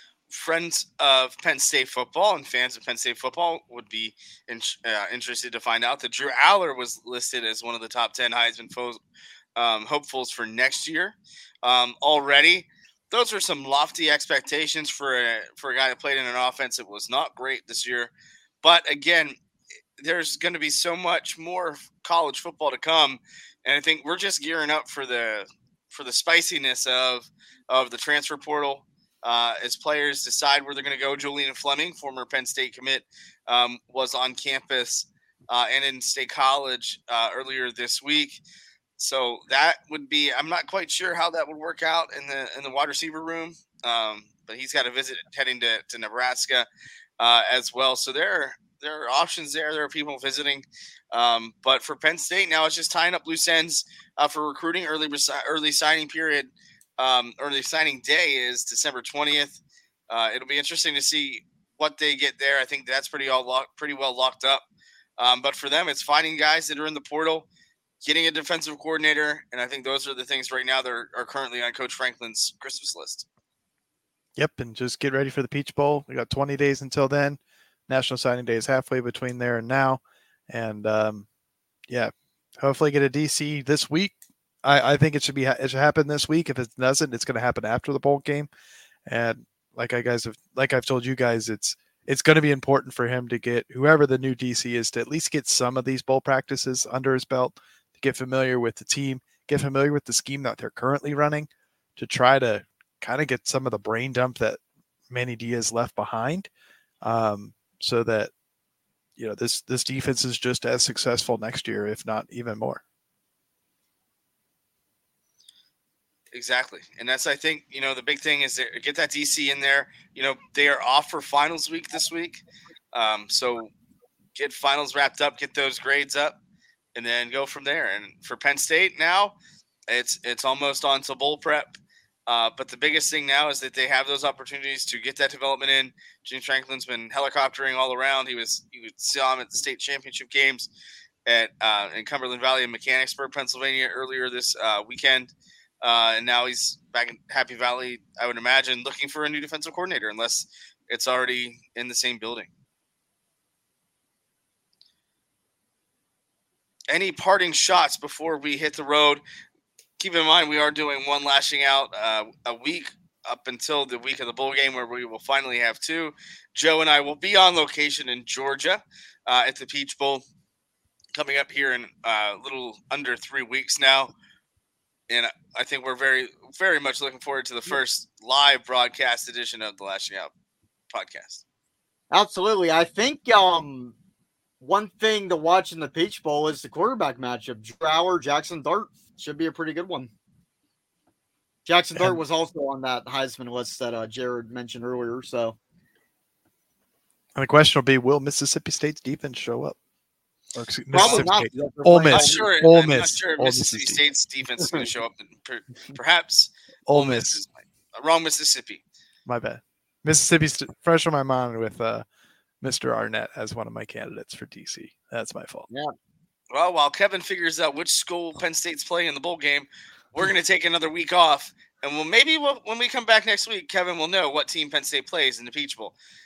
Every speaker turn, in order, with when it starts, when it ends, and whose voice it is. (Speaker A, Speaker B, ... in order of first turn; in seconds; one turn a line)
Speaker A: 0.3-9.0
Speaker A: 9.6-18.1
Speaker A: 18.6-19.4
Speaker A: 20.0-38.4
Speaker A: 39.0-46.7
Speaker A: 47.2-64.6
Speaker A: 65.2-67.5
Speaker A: 68.0-73.2
Speaker B: 74.3-81.2
Speaker B: 81.9-88.5
Speaker B: 89.0-106.5
Speaker B: 107.0-108.3
Speaker B: 109.2-112.8
Speaker A: 116.3-123.7
Speaker A: 124.3-126.4
Speaker A: 126.9-129.3
Speaker A: 129.9-140.7
Speaker A: 141.2-152.5
Speaker A: 156.9-159.2
Speaker A: 160.0-170.2
Speaker A: 171.1-174.1
Speaker A: 175.1-180.3
Speaker A: 180.9-181.4
Speaker C: 182.1-183.9
Speaker C: 184.6-190.1
Speaker C: 191.7-195.6
Speaker B: 197.3-199.8
Speaker B: 200.5-204.0
Speaker C: 200.9-202.5
Speaker A: 201.0-201.3
Speaker A: 202.1-208.8
Speaker B: 206.9-207.4
Speaker B: 209.2-212.0
Speaker B: 212.6-215.7
Speaker A: 216.5-225.9